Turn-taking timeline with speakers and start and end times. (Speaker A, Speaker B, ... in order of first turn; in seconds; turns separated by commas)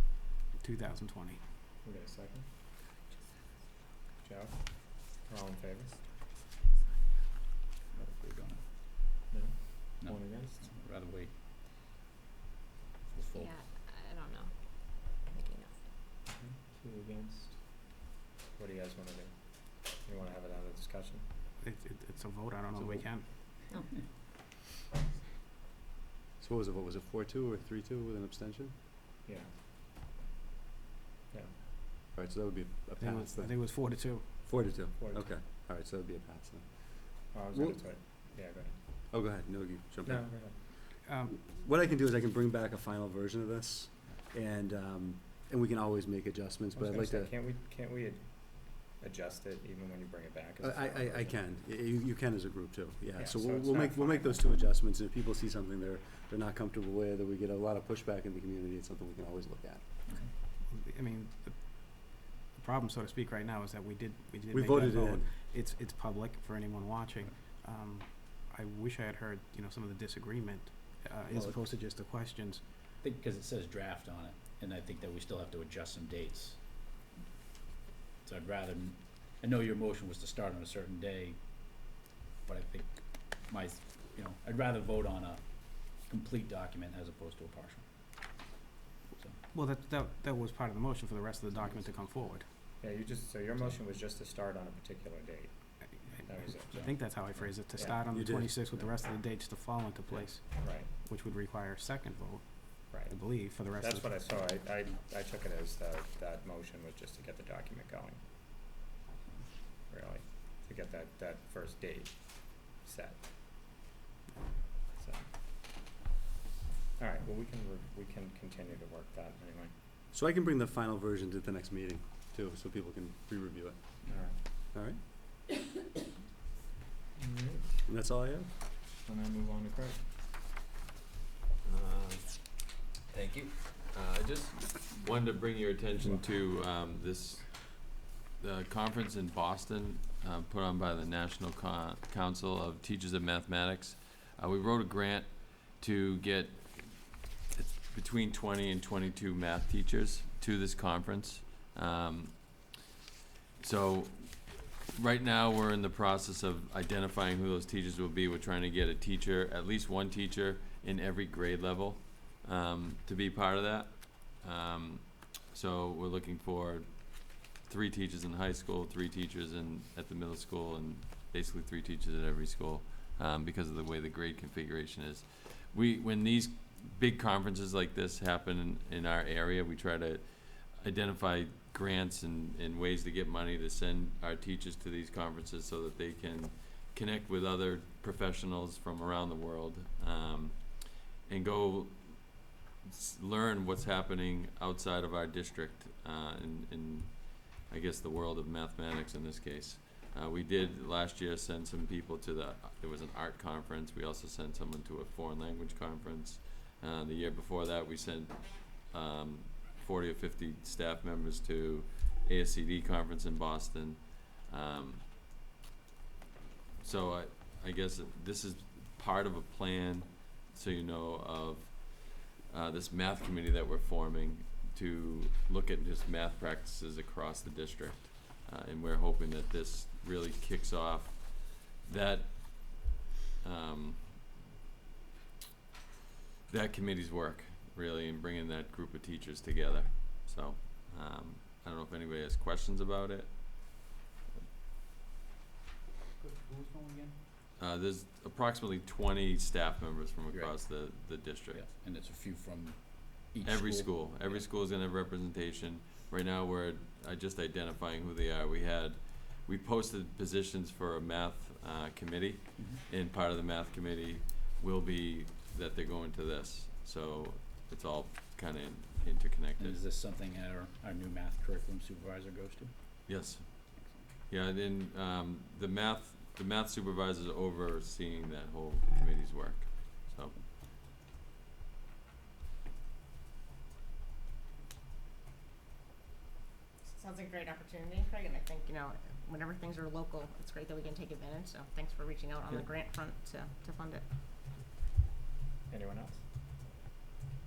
Speaker A: 0.6-1.4, Speaker B: 1.8-2.5, Speaker B: 4.2-6.0, Speaker C: 7.9-8.6, Speaker B: 9.3-10.6, Speaker C: 10.0-11.3, Speaker C: 13.1-13.5, Speaker D: 13.4-14.5, Speaker D: 15.3-15.7, Speaker B: 16.3-17.6, Speaker B: 18.6-21.3, Speaker A: 21.6-23.3, Speaker E: 26.4-28.7, Speaker E: 32.1-37.8, Speaker A: 33.0-34.3, Speaker B: 35.0-35.3, Speaker B: 37.3-38.8, Speaker E: 39.1-40.5, Speaker B: 40.0-40.6, Speaker A: 41.0-41.4, Speaker E: 41.3-47.4, Speaker B: 46.7-51.4, Speaker E: 50.6-59.9, Speaker B: 53.2-54.5, Speaker A: 60.7-72.7, Speaker E: 64.5-65.3, Speaker E: 71.3-71.7, Speaker C: 73.0-76.6, Speaker C: 78.2-87.8, Speaker A: 89.5-92.5, Speaker B: 92.8-95.6, Speaker B: 96.2-96.8, Speaker A: 96.5-104.1, Speaker C: 96.7-97.5, Speaker E: 98.1-98.7, Speaker B: 100.1-100.9, Speaker B: 102.9-103.2, Speaker B: 103.8-108.2, Speaker B: 109.9-113.2, Speaker B: 115.0-115.3, Speaker B: 117.0-119.7, Speaker E: 120.1-123.8, Speaker B: 124.1-124.4, Speaker E: 124.7-125.0, Speaker B: 127.2-127.7, Speaker E: 127.9-128.5, Speaker B: 129.1-130.0, Speaker F: 131.6-132.6, Speaker F: 133.1-152.7, Speaker F: 153.6-215.1, Speaker F: 216.8-234.3, Speaker F: 236.5-244.4, Speaker C: 246.2-247.1, Speaker F: 247.6-251.6, Speaker C: 250.3-250.7, Speaker C: 251.5-254.5, Speaker F: 253.4-269.8, Speaker C: 262.6-262.8, Speaker C: 269.6-272.7, Speaker F: 273.1-273.7, Speaker C: 273.8-274.1, Speaker F: 274.3-280.4, Speaker D: 286.9-294.0, Speaker B: 295.7-296.2